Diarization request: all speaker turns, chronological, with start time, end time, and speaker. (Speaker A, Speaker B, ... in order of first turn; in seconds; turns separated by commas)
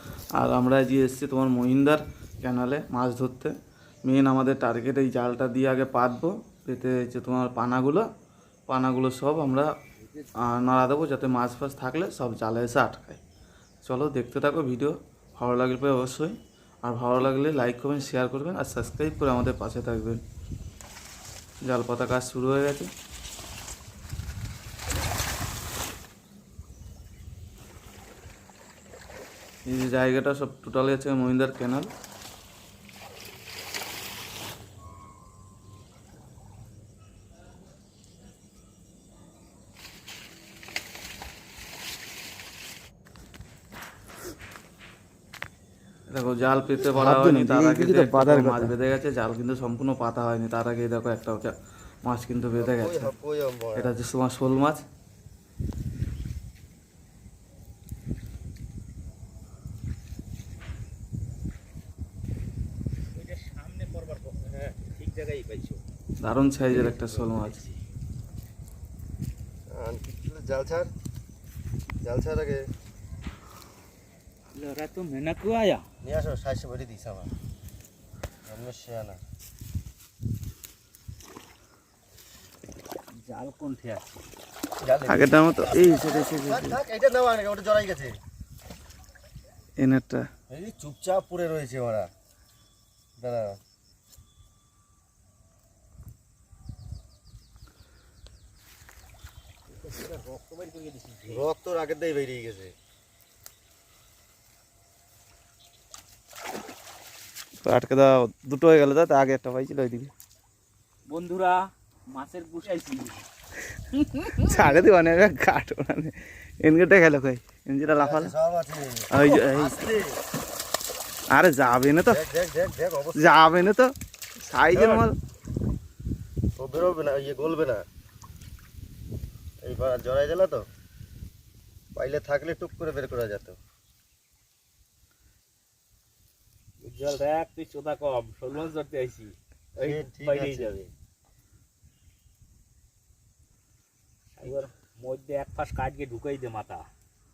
Speaker A: 0.4-3.5, Speaker A: 4.0-8.1, Speaker A: 8.7-9.7, Speaker B: 10.1-10.3, Speaker A: 10.4-13.2, Speaker A: 13.8-20.2, Speaker A: 21.7-22.9, Speaker A: 29.7-31.9, Speaker A: 46.1-51.5, Speaker C: 46.8-48.7, Speaker A: 52.0-53.1, Speaker B: 52.5-53.9, Speaker A: 53.8-54.8, Speaker D: 63.1-65.8, Speaker A: 66.2-67.6, Speaker D: 66.8-67.8, Speaker B: 69.7-70.9, Speaker B: 72.0-72.6, Speaker D: 74.5-75.8, Speaker B: 76.0-77.3, Speaker B: 78.5-79.2, Speaker D: 83.2-84.2, Speaker B: 84.8-88.2, Speaker C: 85.1-86.7, Speaker C: 89.8-90.2, Speaker B: 90.5-92.1, Speaker B: 93.2-93.6, Speaker D: 99.8-101.5, Speaker B: 101.3-102.8, Speaker C: 107.6-110.1, Speaker D: 111.1-113.2, Speaker C: 114.3-118.3, Speaker B: 117.9-120.2, Speaker C: 119.1-119.8, Speaker C: 121.3-122.2, Speaker B: 122.1-123.5, Speaker C: 123.2-123.9, Speaker C: 124.4-125.2, Speaker B: 126.6-127.8, Speaker B: 129.6-130.6, Speaker B: 131.9-133.6, Speaker D: 136.8-140.9, Speaker B: 139.8-140.7, Speaker D: 144.4-146.8